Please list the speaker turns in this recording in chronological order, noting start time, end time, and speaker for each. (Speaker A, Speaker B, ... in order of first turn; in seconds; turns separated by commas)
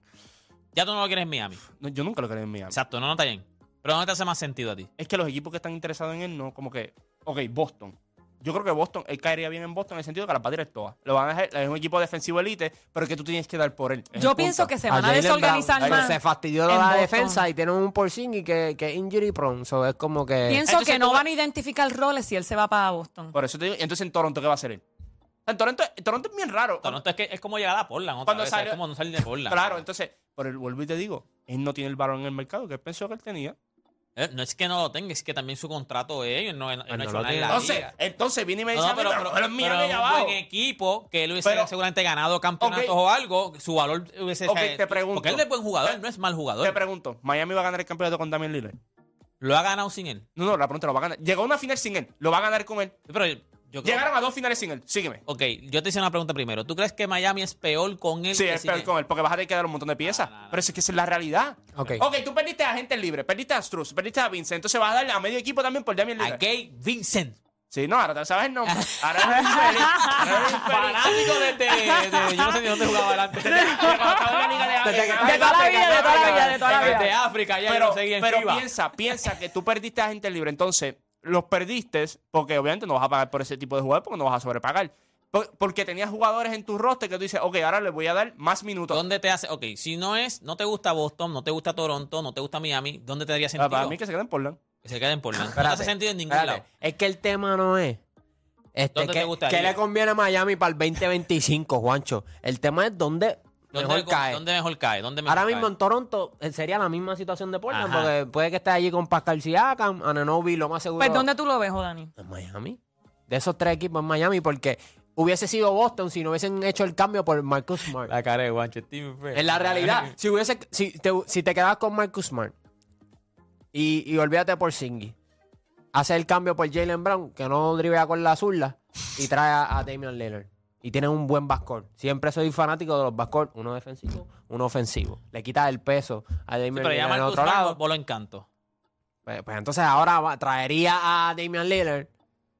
Speaker A: 0.7-1.6, Speaker B: 1.8-2.7, Speaker A: 2.7-4.9, Speaker B: 5.0-14.7, Speaker C: 14.1-17.4, Speaker D: 14.9-20.6, Speaker B: 15.8-16.1, Speaker C: 20.4-23.3, Speaker B: 20.7-21.2, Speaker B: 23.3-24.8, Speaker B: 25.4-27.0, Speaker A: 26.8-29.8, Speaker B: 28.3-28.8, Speaker B: 29.5-33.5, Speaker A: 34.1-37.9, Speaker D: 36.9-37.7, Speaker B: 37.5-40.4, Speaker A: 38.7-46.8, Speaker B: 41.4-41.7, Speaker B: 42.6-42.9, Speaker B: 44.5-46.0, Speaker B: 46.6-48.8, Speaker A: 49.4-50.2, Speaker B: 50.4-53.0, Speaker A: 53.1-54.1, Speaker B: 53.8-55.2, Speaker A: 55.2-58.9, Speaker B: 58.3-66.4, Speaker A: 60.0-60.6, Speaker D: 61.8-62.0, Speaker A: 66.2-67.4, Speaker B: 67.7-71.5, Speaker A: 68.7-78.7, Speaker C: 69.2-70.5, Speaker C: 71.7-77.1, Speaker B: 73.5-77.1, Speaker D: 74.8-75.9, Speaker B: 77.7-89.0, Speaker A: 88.9-94.0, Speaker B: 93.6-94.6, Speaker A: 94.8-96.6, Speaker D: 95.5-98.0, Speaker D: 98.7-104.4, Speaker A: 98.9-99.8, Speaker A: 103.7-105.7, Speaker D: 105.2-111.3, Speaker A: 107.7-108.1, Speaker C: 111.0-112.1, Speaker D: 112.2-118.1, Speaker A: 118.0-120.1, Speaker D: 119.3-122.5, Speaker D: 123.7-125.1, Speaker D: 125.9-137.8, Speaker A: 136.7-138.4, Speaker D: 139.2-142.1